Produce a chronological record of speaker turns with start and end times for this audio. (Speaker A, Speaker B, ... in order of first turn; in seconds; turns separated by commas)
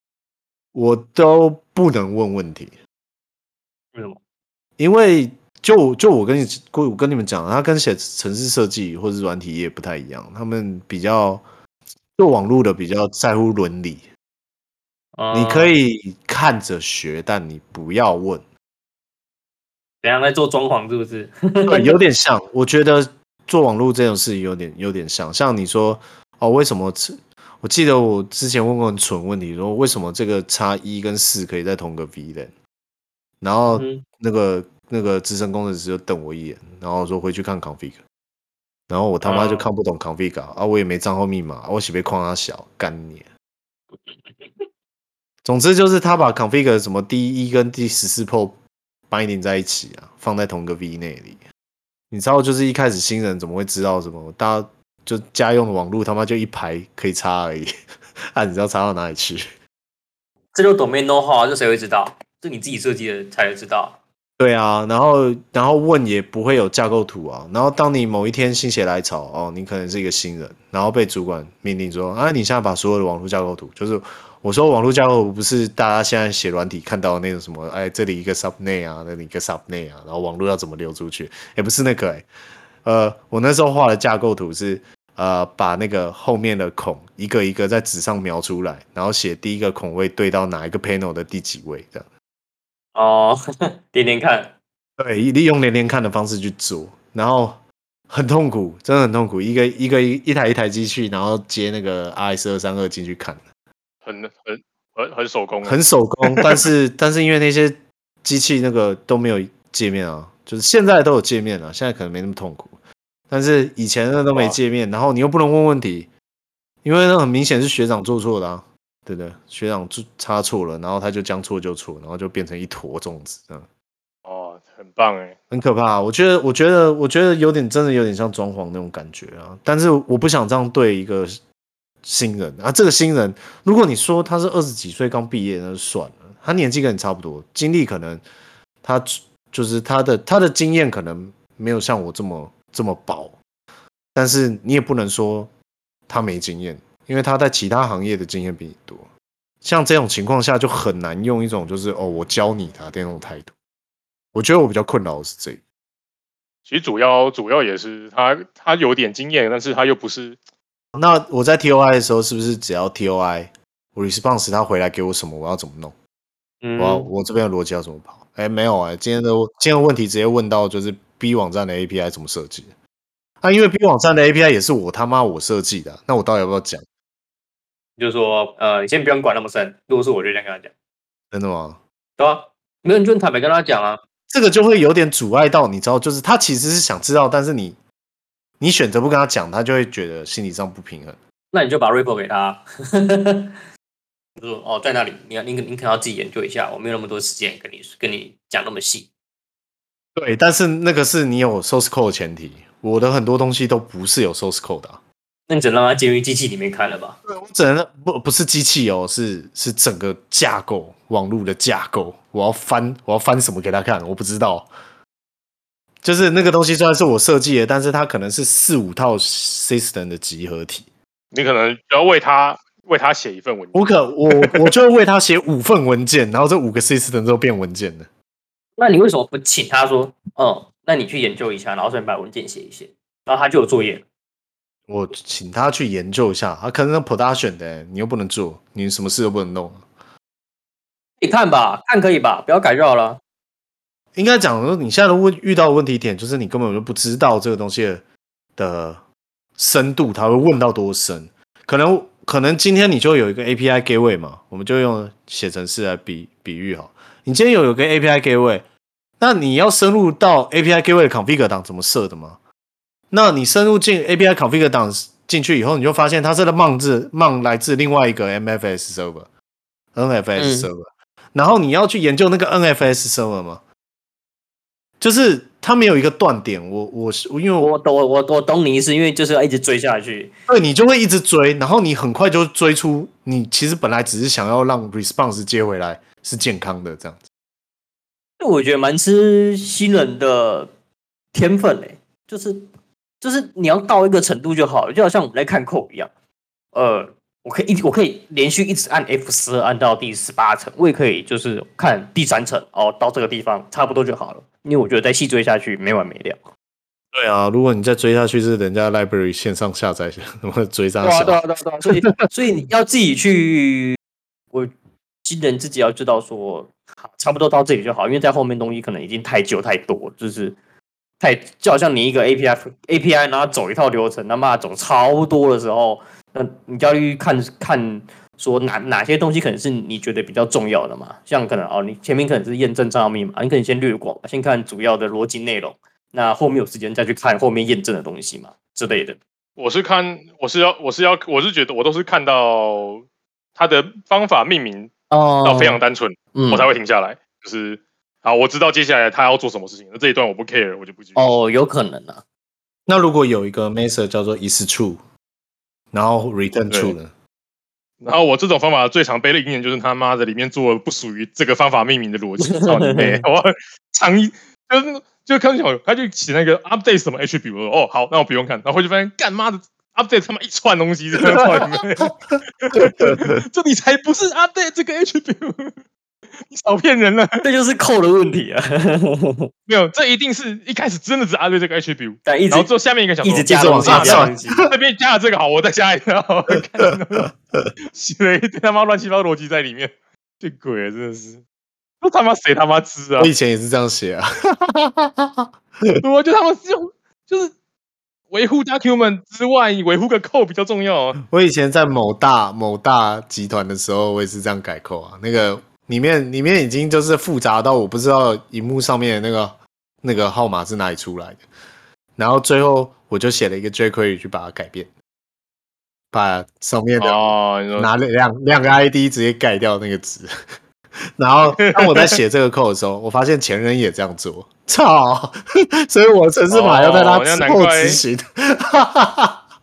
Speaker A: 0.7-2.7, Speaker A: 4.8-11.4, Speaker A: 12.2-14.1, Speaker B: 15.2-15.7, Speaker A: 15.3-18.4, Speaker B: 20.0-22.0, Speaker A: 21.7-32.5, Speaker A: 33.4-38.0, Speaker B: 33.7-34.0, Speaker A: 38.9-43.3, Speaker B: 39.2-39.7, Speaker A: 45.4-48.6, Speaker A: 49.1-51.4, Speaker A: 52.1-57.7, Speaker A: 58.3-59.4, Speaker B: 60.5-64.0, Speaker A: 64.4-82.3, Speaker A: 82.8-92.1, Speaker B: 92.9-93.4, Speaker B: 93.9-94.5, Speaker A: 95.0-103.4, Speaker C: 104.0-106.7, Speaker A: 105.6-112.8, Speaker A: 113.3-116.1, Speaker C: 114.3-114.6, Speaker A: 116.8-123.7, Speaker C: 124.2-125.3, Speaker A: 125.5-131.4, Speaker A: 132.0-138.2, Speaker A: 138.8-143.4, Speaker A: 144.1-145.5, Speaker A: 146.1-149.1, Speaker A: 149.6-153.5, Speaker A: 154.3-155.6, Speaker C: 156.7-160.4, Speaker A: 160.9-165.9, Speaker B: 166.6-167.1, Speaker A: 166.8-172.7, Speaker A: 173.4-176.8, Speaker B: 178.0-180.7, Speaker A: 181.3-181.8, Speaker B: 182.2-184.0, Speaker A: 184.3-187.8, Speaker A: 188.6-191.2, Speaker B: 191.5-193.5, Speaker B: 194.4-199.1, Speaker A: 200.2-205.0, Speaker B: 205.5-207.2, Speaker A: 207.2-214.7, Speaker A: 216.0-220.9, Speaker C: 221.3-224.7, Speaker A: 223.7-228.1, Speaker B: 228.8-234.0, Speaker A: 234.9-239.9, Speaker B: 241.2-243.2, Speaker A: 244.1-248.0, Speaker A: 248.6-249.0, Speaker A: 249.6-258.6, Speaker A: 259.2-262.4, Speaker A: 263.1-269.3, Speaker A: 269.9-273.6, Speaker B: 270.4-270.7, Speaker A: 275.0-277.7, Speaker B: 277.6-280.3, Speaker A: 280.5-287.2, Speaker B: 288.4-290.7, Speaker B: 291.3-292.6, Speaker B: 293.2-296.1, Speaker B: 296.7-306.4, Speaker A: 307.1-312.1, Speaker B: 311.0-314.0, Speaker B: 315.2-320.6, Speaker B: 321.2-339.2, Speaker C: 339.6-343.0, Speaker C: 343.6-344.9, Speaker B: 345.1-345.8, Speaker C: 345.4-351.3, Speaker B: 346.3-346.7, Speaker B: 351.1-352.2, Speaker A: 352.9-355.0, Speaker A: 355.9-357.1, Speaker C: 358.0-375.7, Speaker B: 362.4-363.2, Speaker A: 371.3-371.8, Speaker A: 372.7-373.4, Speaker C: 376.5-377.4, Speaker B: 377.4-379.5, Speaker C: 379.7-387.3, Speaker B: 382.2-382.7, Speaker B: 383.2-384.6, Speaker A: 383.5-384.7, Speaker A: 387.2-387.7, Speaker C: 387.9-391.4, Speaker C: 392.0-393.3, Speaker A: 393.2-396.0, Speaker C: 396.0-397.5, Speaker C: 398.3-401.2, Speaker A: 401.2-411.4, Speaker A: 412.1-414.9, Speaker A: 416.1-420.3, Speaker C: 417.0-417.9, Speaker A: 421.2-429.4, Speaker C: 421.6-422.2, Speaker C: 426.5-428.0